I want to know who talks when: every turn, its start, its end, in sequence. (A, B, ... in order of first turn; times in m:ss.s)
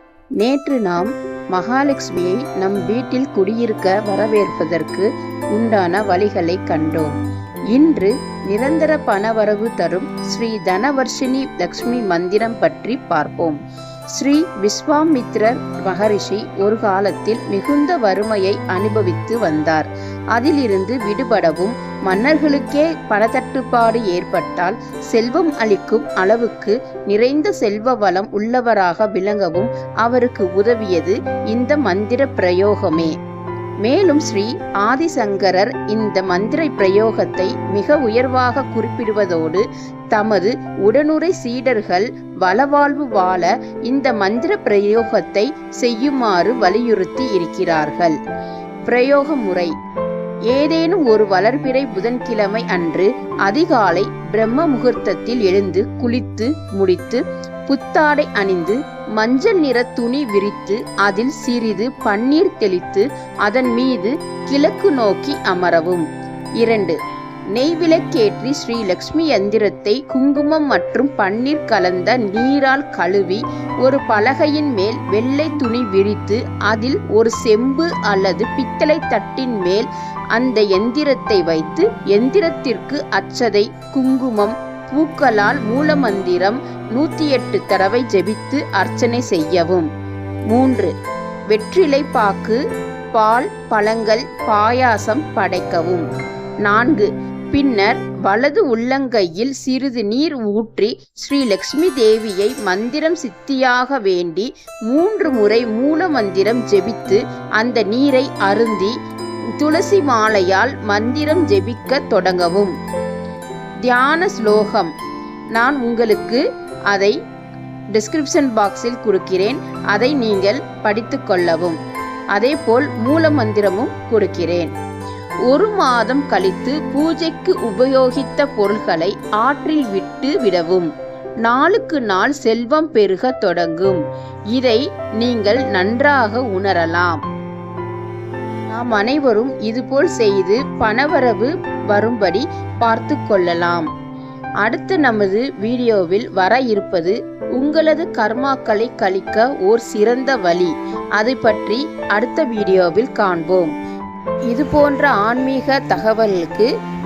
0:00.4-0:07.1 A
0:07.7-0:13.6 A
0:14.1-0:33.1 A
0:33.8-0:48.2 A
0:48.8-0:49.7 A
0:50.5-1:06.0 A
1:06.6-1:07.0 A
1:07.5-1:29.9 A
1:30.5-1:30.9 A
1:31.5-1:32.6 A
1:33.1-1:36.0 A
1:36.6-1:48.9 A
1:49.6-1:52.7 A
1:53.8-1:54.9 A
1:55.6-1:57.1 A
1:57.9-2:01.8 A
2:02.3-2:04.7 A
2:05.5-2:10.9 A
2:11.4-2:14.0 A
2:14.5-2:17.2 A
2:18.7-2:23.9 A
2:24.6-2:33.7 A
2:34.5-2:36.7 A